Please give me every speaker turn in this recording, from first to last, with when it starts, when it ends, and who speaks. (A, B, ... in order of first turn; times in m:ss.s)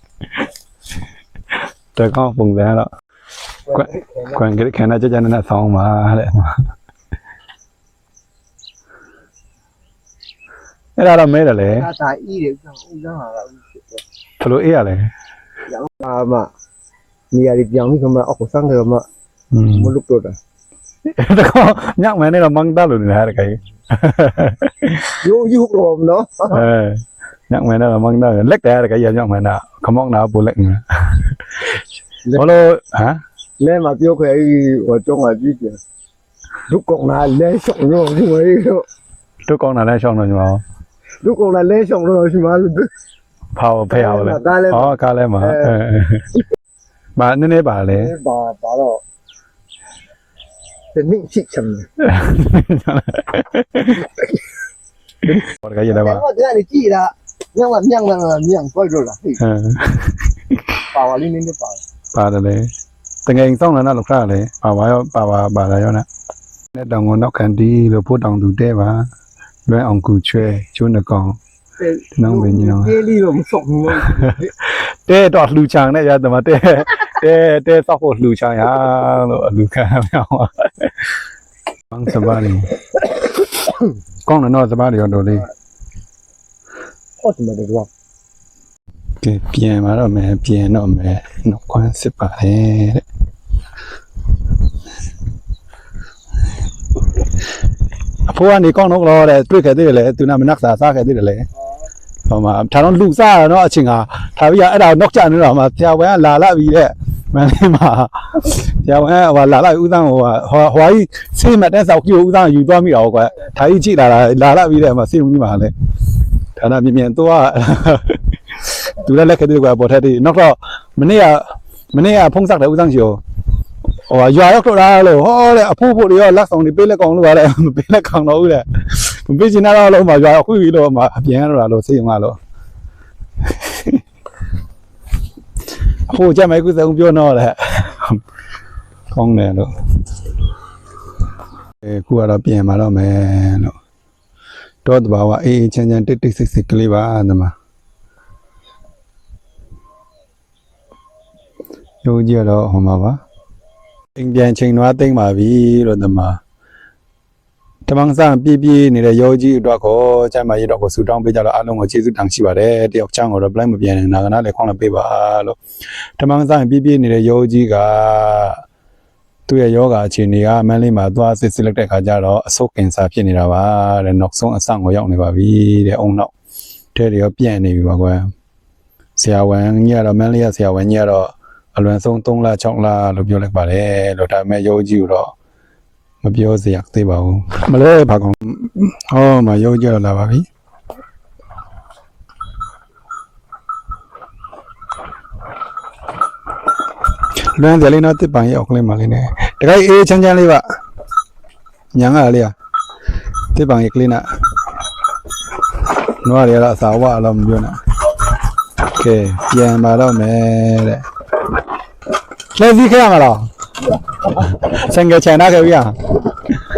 0:01.9-0:02.9 A
0:03.7-0:04.4 B
0:03.7-0:06.7 A
0:11.0-0:11.9 A
0:11.6-0:14.0 B
0:14.4-0:15.1 A
0:15.7-0:16.5 B
0:17.3-0:19.0 B
0:19.5-0:19.9 A
0:19.7-0:20.4 B
0:21.0-0:25.2 A
0:25.2-0:26.6 B
0:26.5-0:31.7 A
0:32.2-0:32.6 B
0:32.3-0:33.2 A
0:33.6-0:35.8 B
0:36.7-0:38.8 B
0:39.5-0:40.6 A
0:41.2-0:42.9 B
0:43.6-0:46.3 A
0:43.9-0:45.8 B
0:47.2-0:48.1 A
0:47.9-0:49.0 B
0:50.9-0:51.9 B
0:52.0-0:54.1 A
0:54.0-0:54.3 B
0:55.2-0:59.4 B
0:55.3-0:56.2 A
0:59.4-1:00.7 A
1:00.9-1:01.8 B
1:02.1-1:02.7 A
1:03.2-1:06.0 A
1:06.7-1:09.1 A
1:09.7-1:11.4 A
1:11.8-1:14.5 B
1:12.2-1:12.9 A
1:14.0-1:21.1 A
1:21.9-1:22.8 A
1:24.2-1:25.5 A
1:27.2-1:27.9 B
1:29.2-1:33.0 A
1:38.2-1:41.5 A
1:42.3-1:55.7 A
1:56.5-2:03.2 A
2:04.1-2:12.4 A
2:13.4-2:14.0 A
2:16.1-2:18.2 A
2:19.1-2:19.7 A
2:21.8-2:23.8 A
2:24.8-2:27.5 A
2:32.0-2:33.2 A
2:34.2-2:36.4 A
2:37.9-2:45.6 A
2:46.2-2:48.6 A
2:49.5-2:56.3 A
2:56.9-2:58.3 A
2:59.2-3:05.3 A
3:06.2-3:10.5 A
3:17.4-3:20.6 A
3:21.9-3:22.5 A
3:23.5-3:24.3 A
3:25.9-3:27.8 A
3:28.8-3:31.0 A
3:32.5-3:33.5 A
3:34.3-3:36.1 A